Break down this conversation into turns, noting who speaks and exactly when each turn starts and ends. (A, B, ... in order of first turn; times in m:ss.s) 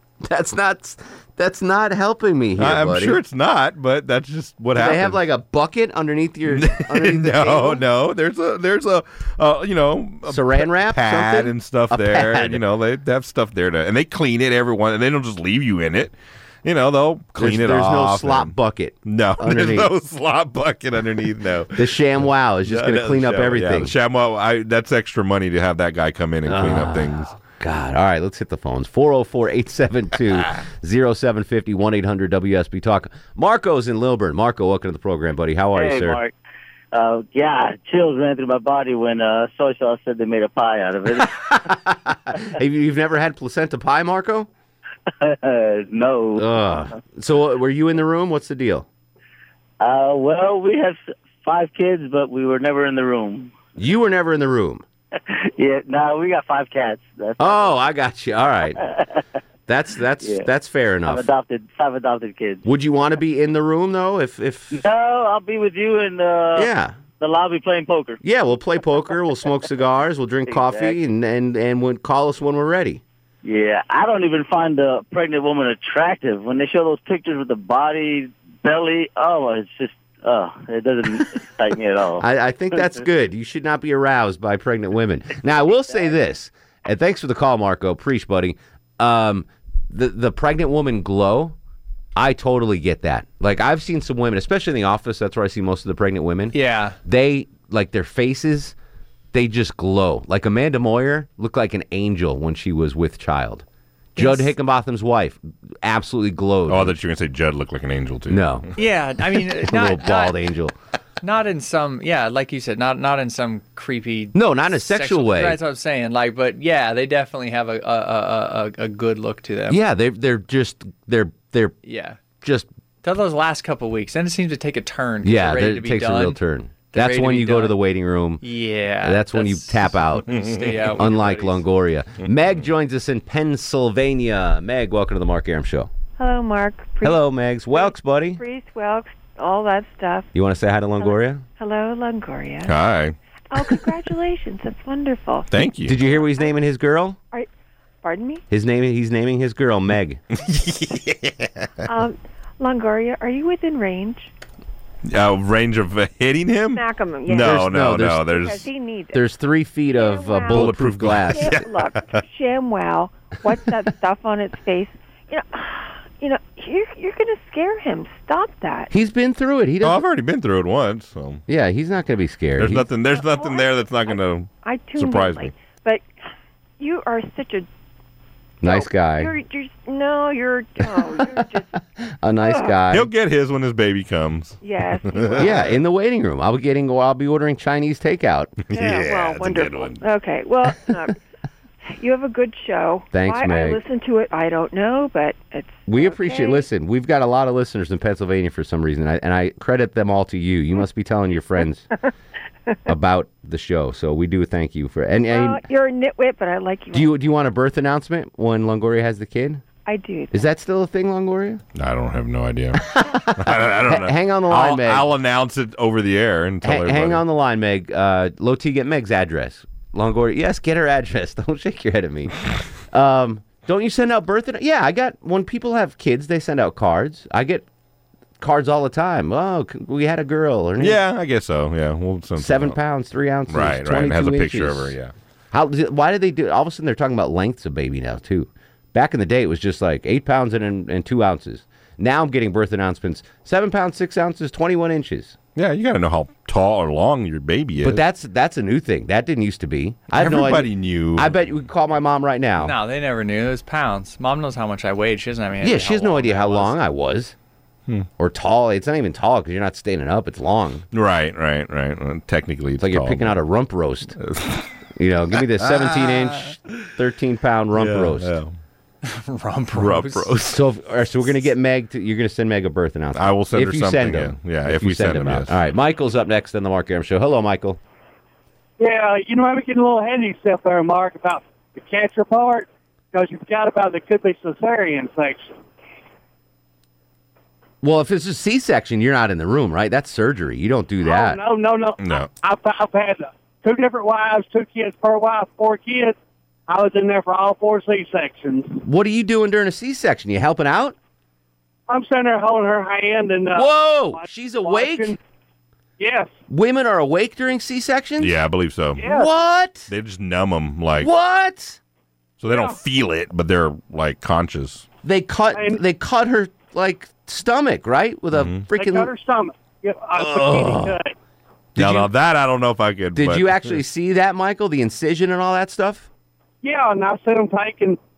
0:00.2-0:03.2 A
0:02.6-0:05.2 B
0:04.8-0:07.8 A
0:06.5-0:18.5 B
0:10.3-0:12.6 A
0:17.4-0:19.9 A
0:19.1-0:21.8 B
0:21.8-0:23.9 A
0:22.7-0:27.3 B
0:26.5-0:36.2 A
0:35.8-0:36.3 C
0:36.9-0:41.3 C
0:41.3-0:44.5 A
0:45.2-0:46.9 C
0:46.4-0:48.9 A
0:49.8-0:53.5 C
0:53.8-0:54.8 A
0:55.2-0:57.8 C
0:57.4-0:58.8 A
0:58.8-0:59.2 C
0:59.7-1:01.3 A
1:00.2-1:00.5 C
1:01.1-1:02.6 C
1:02.6-1:04.8 A
1:04.7-1:08.2 C
1:06.6-1:07.0 A
1:08.2-1:13.0 A
1:10.5-1:11.0 C
1:13.4-1:23.1 C
1:22.2-1:31.6 A
1:32.2-1:38.8 A
1:36.5-1:37.0 D
1:39.3-1:43.6 A
1:44.2-1:44.5 D
1:44.2-1:47.0 A
1:46.7-1:48.7 B
1:48.3-1:48.7 A
1:48.8-1:50.4 D
1:49.6-1:50.7 A
1:51.2-1:59.8 D
1:54.3-1:55.6 A
1:59.7-2:01.8 A
2:01.8-2:02.2 D
2:02.4-2:02.7 A
2:03.0-2:07.8 D
2:05.2-2:08.4 A
2:08.4-2:11.6 D
2:09.0-2:10.3 A
2:10.3-2:10.9 B
2:10.9-2:15.9 A
2:16.2-2:20.3 E
2:17.0-2:18.4 A
2:20.3-2:21.4 A
2:21.0-2:22.9 E
2:22.7-2:23.2 B
2:23.5-2:26.6 E
2:25.5-2:26.0 B
2:25.8-2:27.2 A
2:28.0-2:28.4 E
2:28.5-2:30.2 A
2:30.4-2:31.7 B
2:31.8-2:34.3 E
2:35.1-2:38.7 B
2:36.7-2:39.3 E
2:37.4-2:38.3 A
2:39.1-2:41.6 A
2:39.9-2:48.9 E
2:40.5-2:42.2 B
2:48.9-2:50.0 A
2:49.8-2:51.4 B
2:51.5-2:52.9 A
2:52.6-2:55.5 B
2:53.1-2:56.1 E
2:56.8-2:57.7 E
2:58.6-2:59.3 A
2:58.6-3:01.8 E
3:02.2-3:03.1 A
3:02.4-3:02.8 E
3:02.9-3:05.7 B
3:04.6-3:05.8 E
3:05.4-3:08.6 A
3:08.6-3:10.0 B
3:08.7-3:11.2 E
3:11.8-3:16.7 E
3:13.1-3:13.8 A
3:15.9-3:21.9 A
3:22.9-3:25.6 A
3:25.2-3:27.3 E
3:26.9-3:29.6 A
3:29.8-3:30.5 E
3:30.3-3:31.6 A
3:31.8-3:32.8 B
3:32.8-3:35.1 A
3:33.4-3:37.2 B
3:36.6-3:47.7 A
3:48.4-3:51.0 A
3:50.8-3:52.8 B
3:52.4-3:55.0 A
3:53.5-3:55.1 B
3:55.5-4:05.4 A
4:05.6-4:08.0 B
4:07.8-4:12.7 A
4:10.1-4:11.5 B
4:12.6-4:16.8 D
4:15.6-4:17.4 A
4:18.2-4:20.8 A
4:20.9-4:23.4 B
4:22.8-4:24.2 A
4:24.2-4:24.7 B
4:25.0-4:28.4 A
4:25.6-4:26.8 B
4:27.8-4:28.6 B
4:29.0-4:30.4 D
4:29.7-4:30.6 B
4:30.5-4:37.8 A
4:33.2-4:35.6 B
4:38.8-4:45.5 F
4:47.8-4:51.4 A
4:51.0-4:56.2 F
4:52.0-4:52.3 B
4:56.7-4:58.8 F
4:58.8-5:01.0 A
5:01.9-5:05.2 F
5:03.5-5:05.2 A
5:06.0-5:06.3 F
5:06.5-5:08.4 A
5:08.2-5:09.0 B
5:09.0-5:09.3 F
5:09.0-5:09.9 A
5:09.9-5:11.1 B
5:11.0-5:11.8 A
5:12.4-5:14.9 B
5:12.5-5:12.8 F
5:15.0-5:19.1 A
5:15.5-5:15.8 F
5:18.3-5:18.7 B
5:18.7-5:21.1 F
5:20.2-5:21.0 A
5:21.8-5:22.1 A
5:21.8-5:23.7 B
5:23.2-5:26.1 A
5:26.6-5:28.0 F